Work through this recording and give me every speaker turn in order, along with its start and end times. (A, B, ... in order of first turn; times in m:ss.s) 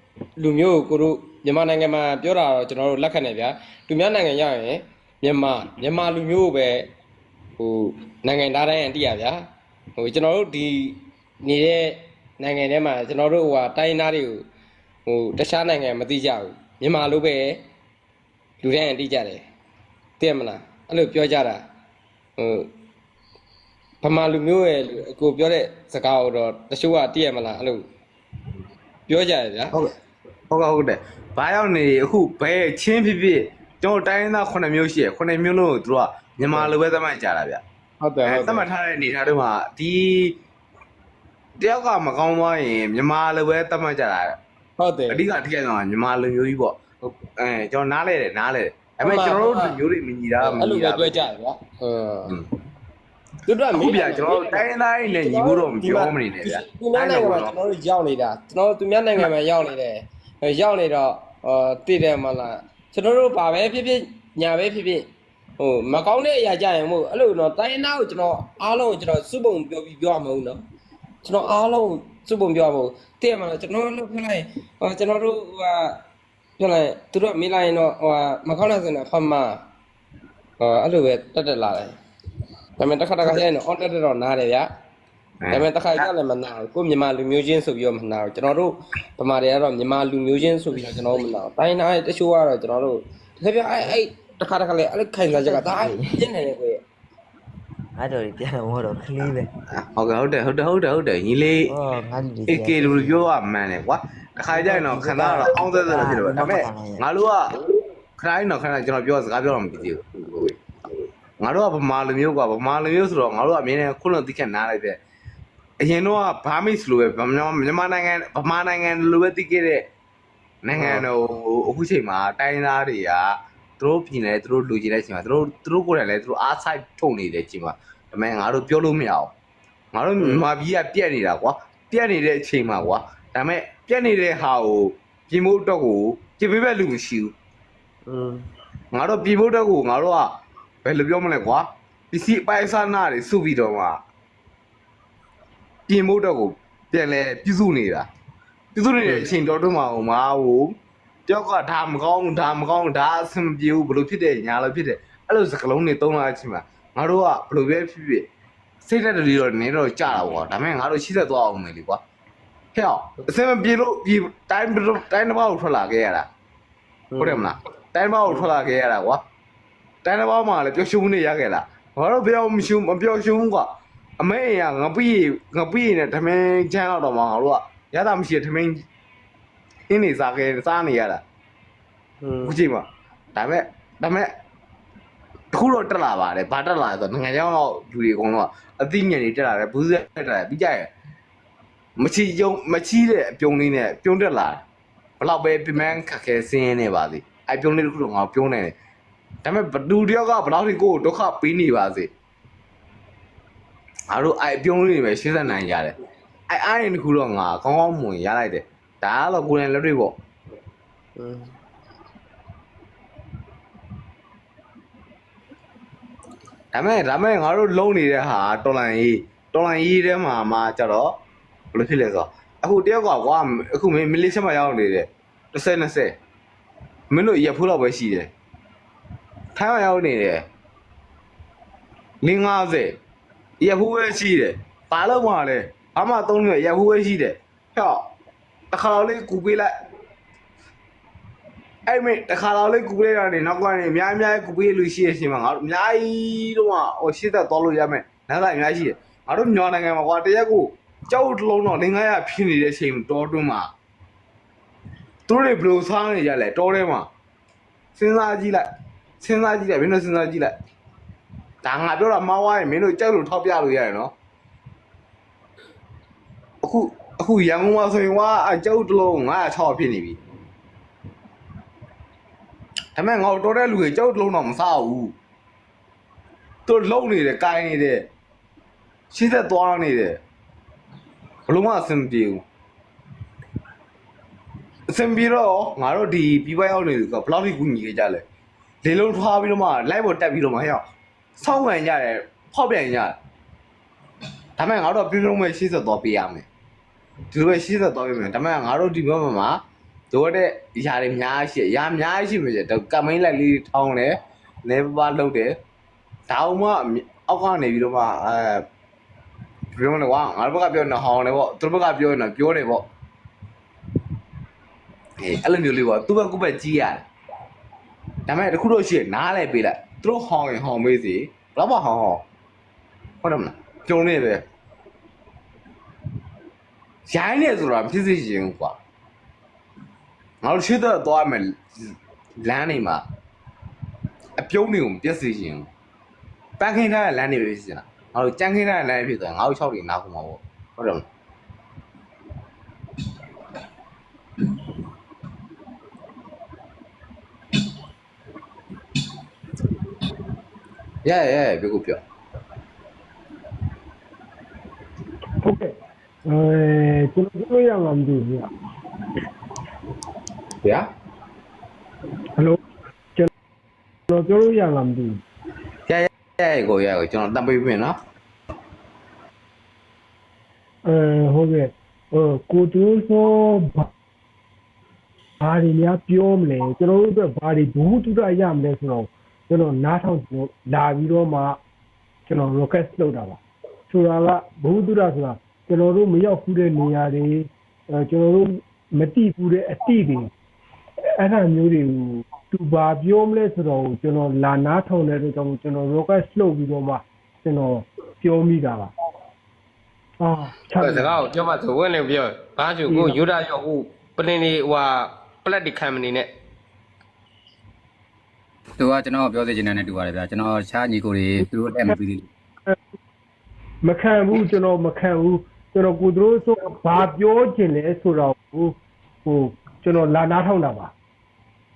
0:00.4-0:06.9 A
0:07.6-0:09.4 A
0:10.0-0:14.4 A
0:15.1-0:17.6 A
0:18.6-0:19.4 A
0:20.2-0:21.6 A
0:22.4-0:22.7 A
0:24.0-0:27.8 A
0:29.1-0:29.7 A
0:30.5-0:37.6 B
0:38.0-0:38.7 A
0:38.3-0:40.4 B
0:41.6-0:44.4 B
0:44.8-0:45.2 A
0:45.1-0:51.3 B
0:49.0-0:49.8 A
0:50.4-0:52.3 A
0:53.5-1:05.1 A
0:53.7-0:57.5 B
1:05.6-1:10.6 A
1:11.2-1:16.0 A
1:16.6-1:19.6 A
1:20.6-1:22.0 A
1:22.8-1:24.7 A
1:25.4-1:26.1 B
1:25.5-1:36.8 A
1:35.4-1:36.2 C
1:38.0-1:39.5 C
1:39.7-1:41.7 B
1:41.7-1:43.2 C
1:42.5-1:47.4 B
1:44.5-1:47.0 C
1:48.2-1:50.6 B
1:51.4-1:55.0 B
1:55.8-1:59.8 B
2:00.6-2:09.3 B
2:00.7-2:01.1 A
2:09.9-2:17.3 B
2:18.1-2:18.4 A
2:18.9-2:20.3 B
2:20.8-2:24.0 B
2:25.9-2:28.1 B
2:28.8-2:30.8 B
2:31.3-2:38.3 B
2:38.8-2:42.0 B
2:42.8-2:46.2 B
2:47.1-2:47.4 A
2:47.2-2:49.2 B
2:50.0-2:53.7 B
2:54.2-2:58.8 B
2:59.9-3:01.2 B
3:02.2-3:02.6 A
3:02.4-3:04.3 B
3:05.5-3:10.9 B
3:12.0-3:14.6 B
3:15.2-3:18.8 B
3:19.4-3:22.1 B
3:24.1-3:25.9 B
3:26.5-3:30.1 B
3:31.2-3:31.5 A
3:36.7-3:41.1 B
3:41.7-3:46.1 B
3:47.1-3:48.3 B
3:49.6-3:50.4 B
3:52.2-3:53.0 B
3:53.6-3:58.1 B
3:58.7-3:59.7 B
4:01.9-4:13.7 B
4:15.3-4:17.1 B
4:18.0-4:18.7 B
4:19.2-4:20.5 B
4:21.6-4:24.1 B
4:26.6-4:30.2 B
4:33.0-4:35.1 B
4:36.7-4:38.0 B
4:39.1-4:40.2 B
4:41.5-4:42.4 B
4:44.9-4:48.2 B
4:48.8-4:50.8 B
4:51.4-4:53.2 B
4:54.6-4:56.5 B
4:57.3-5:04.1 B
5:04.6-5:05.6 B
5:06.3-5:08.6 B
5:09.8-5:12.8 B
5:15.2-5:17.0 B
5:18.3-5:22.2 B
5:23.2-5:24.4 B
5:27.1-5:28.8 B
5:30.4-5:33.0 B
5:34.4-5:35.7 B
5:36.6-5:41.0 B
5:51.0-5:52.0 B
5:55.4-5:55.7 D
5:56.2-5:58.5 D
6:04.1-6:05.2 D
6:05.9-6:08.0 B
6:10.9-6:13.9 D
6:15.4-6:21.6 D
6:22.3-6:30.3 D
6:31.2-6:38.9 D
6:40.2-6:41.2 D
6:40.8-6:46.3 A
6:42.9-6:43.2 D
6:48.8-6:52.3 E
6:53.8-7:00.9 D